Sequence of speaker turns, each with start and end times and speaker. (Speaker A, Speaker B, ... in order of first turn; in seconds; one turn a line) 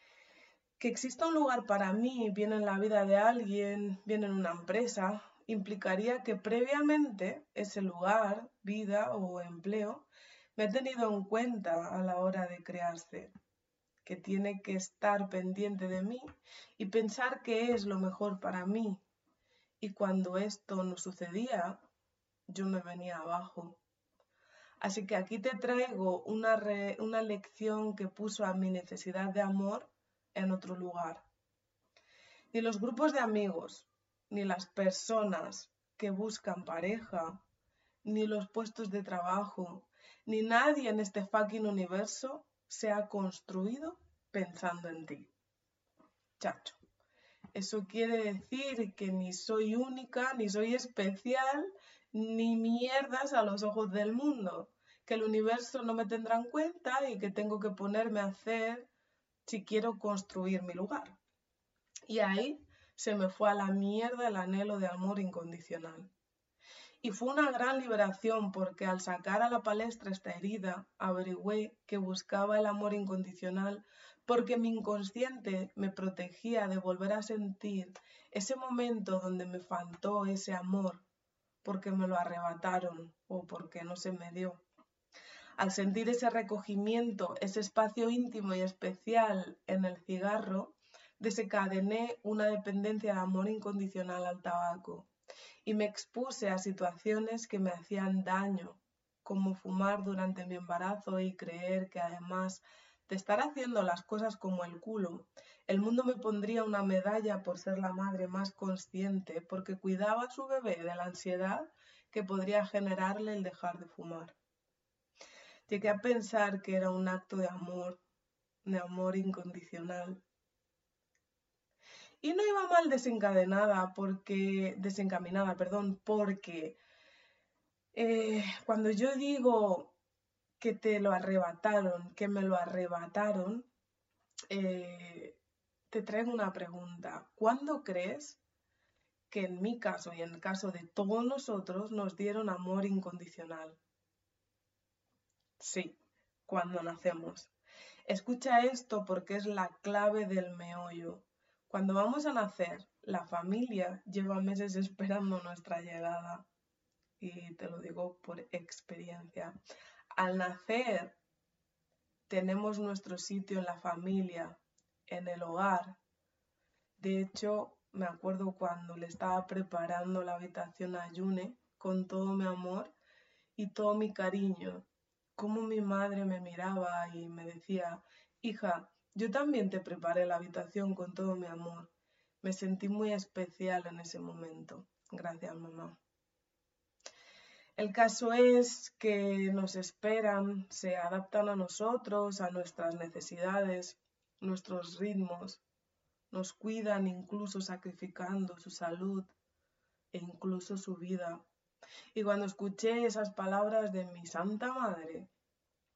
Speaker A: 0.8-13.3
Speaker A: 14.0-19.0
Speaker A: 19.8-21.8
Speaker A: 22.5-23.8
Speaker A: 24.8-31.3
Speaker A: 32.5-37.4
Speaker A: 38.0-45.3
Speaker A: 46.4-46.8
Speaker A: 47.5-58.9
Speaker A: 59.5-61.2
Speaker A: 62.1-66.1
Speaker A: 67.0-81.0
Speaker A: 81.6-84.6
Speaker A: 85.6-95.1
Speaker A: 95.6-114.4
Speaker A: 115.7-118.0
Speaker A: 118.6-120.2
Speaker A: 122.2-126.8
Speaker A: 127.9-129.9
Speaker A: 130.6-133.7
Speaker A: 134.5-135.4
Speaker A: 135.9-138.4
Speaker A: 139.3-143.8
Speaker A: 145.6-145.9
Speaker A: 146.5-147.5
Speaker A: 148.1-156.4
Speaker A: 157.2-159.6
Speaker A: 160.1-161.2
Speaker A: 162.3-166.0
Speaker A: 167.0-172.9
Speaker A: 173.6-181.9
Speaker A: 182.4-186.0
Speaker A: 187.8-195.6
Speaker A: 196.3-199.3
Speaker A: 200.1-201.4
Speaker A: 202.1-205.3